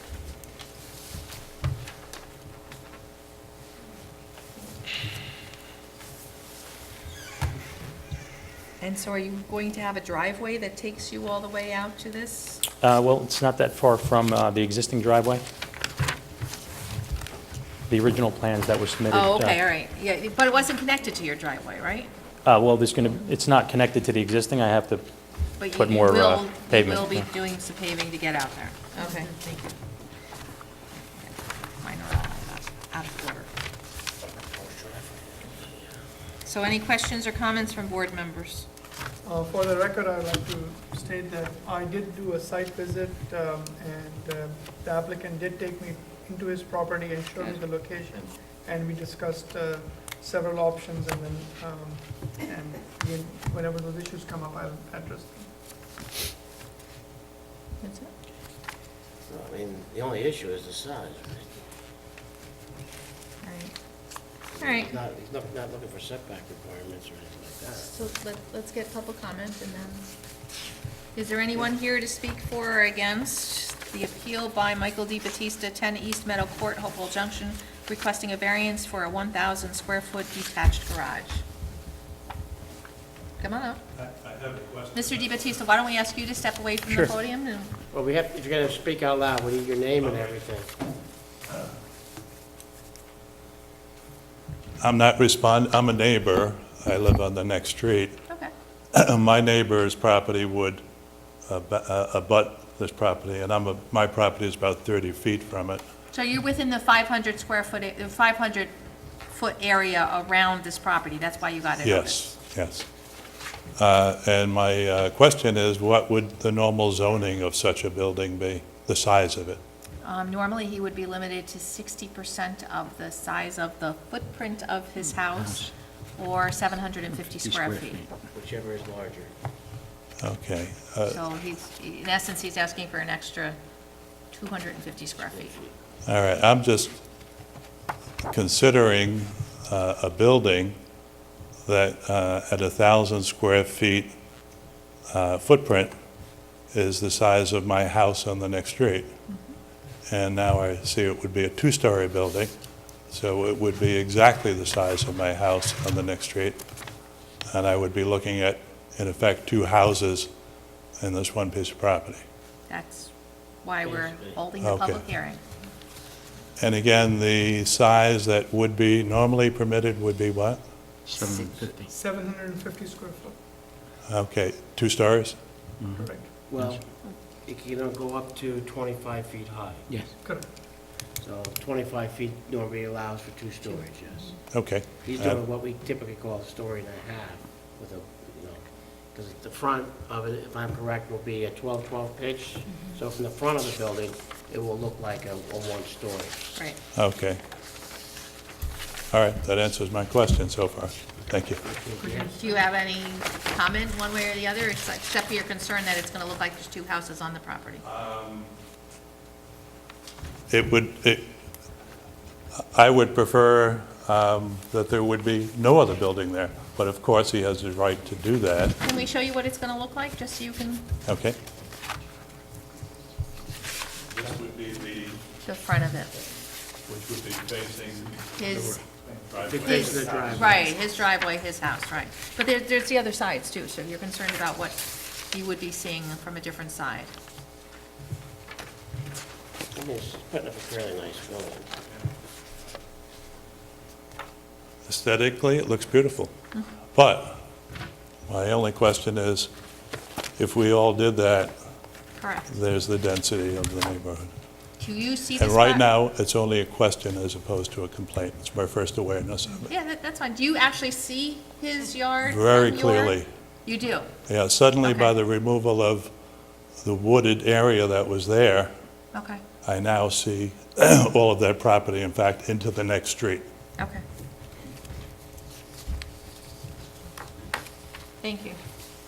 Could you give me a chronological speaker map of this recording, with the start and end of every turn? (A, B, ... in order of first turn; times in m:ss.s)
0:08.8-0:12.6 A
0:12.8-0:15.4 B
0:17.9-0:19.6 B
0:19.1-0:22.1 A
0:22.4-0:25.0 B
0:25.6-0:29.8 A
0:25.7-0:27.3 B
0:29.0-0:29.3 C
0:31.2-0:33.5 A
0:34.5-0:35.9 D
0:36.4-0:38.7 A
0:39.2-0:55.5 C
0:57.8-0:58.1 A
0:59.3-1:01.6 D
1:03.4-1:03.7 A
1:04.5-1:07.9 D
1:04.6-1:05.0 A
1:07.8-1:10.1 A
1:11.1-1:21.4 A
1:23.4-1:23.8 A
1:23.9-1:25.5 E
1:24.9-1:27.7 A
1:27.9-1:30.7 D
1:34.8-1:38.2 E
1:38.9-1:40.8 E
1:41.5-1:45.8 E
1:46.1-1:48.7 A
1:49.3-1:52.3 A
1:51.8-1:52.8 E
1:53.8-1:59.6 E
2:00.0-2:08.0 A
2:05.3-2:05.6 F
2:07.2-2:08.2 F
2:08.3-2:09.3 D
2:10.2-2:11.2 E
2:11.1-2:13.6 A
2:14.3-2:15.5 A
2:15.2-2:15.7 D
2:16.0-2:16.9 E
2:18.3-2:20.8 E
2:21.6-2:24.1 E
2:25.1-2:25.9 E
2:26.7-2:29.1 E
2:29.3-2:29.5 A
2:30.1-2:32.5 E
2:33.1-2:36.6 E
2:37.5-2:40.3 E
2:41.0-2:42.2 E
2:42.7-2:43.1 A
2:43.6-2:45.4 A
2:43.8-2:44.4 D
2:44.6-2:45.0 E
2:46.6-2:50.6 E
2:51.0-2:51.9 F
2:51.8-2:53.4 C
2:54.0-2:55.4 E
2:55.8-2:56.8 F
2:55.9-2:56.4 C
2:56.4-2:59.9 D
2:59.9-3:00.2 F
3:00.2-3:00.5 C
3:01.0-3:04.4 D
3:04.5-3:05.4 E
3:05.0-3:16.5 D
3:16.9-3:17.4 E
3:19.1-3:21.6 E
3:21.6-3:22.3 D
3:22.0-3:22.6 C
3:22.2-3:27.8 A
3:27.8-3:28.5 E
3:30.5-3:31.3 E
3:32.7-3:38.8 E
3:38.8-3:40.8 A
3:41.0-3:41.4 E
3:44.1-3:45.2 E
3:45.4-3:46.2 A
3:46.8-3:50.6 E
3:48.3-3:48.8 A
3:49.4-3:50.6 D
3:49.6-3:57.1 A
3:59.7-4:01.7 D
4:04.8-4:06.3 E
4:06.9-4:07.4 E
4:08.3-4:09.5 E
4:10.4-4:11.6 E
4:12.2-4:12.5 A
4:12.5-4:14.3 E
4:14.8-4:15.9 A
4:15.4-4:19.7 E
4:19.6-4:24.1 A
4:22.2-4:23.3 E
4:24.2-4:26.1 E
4:24.8-4:25.1 A
4:26.8-4:28.7 E
4:29.1-4:29.4 A
4:29.6-4:33.4 E
4:33.8-4:34.0 A
4:38.2-4:38.6 A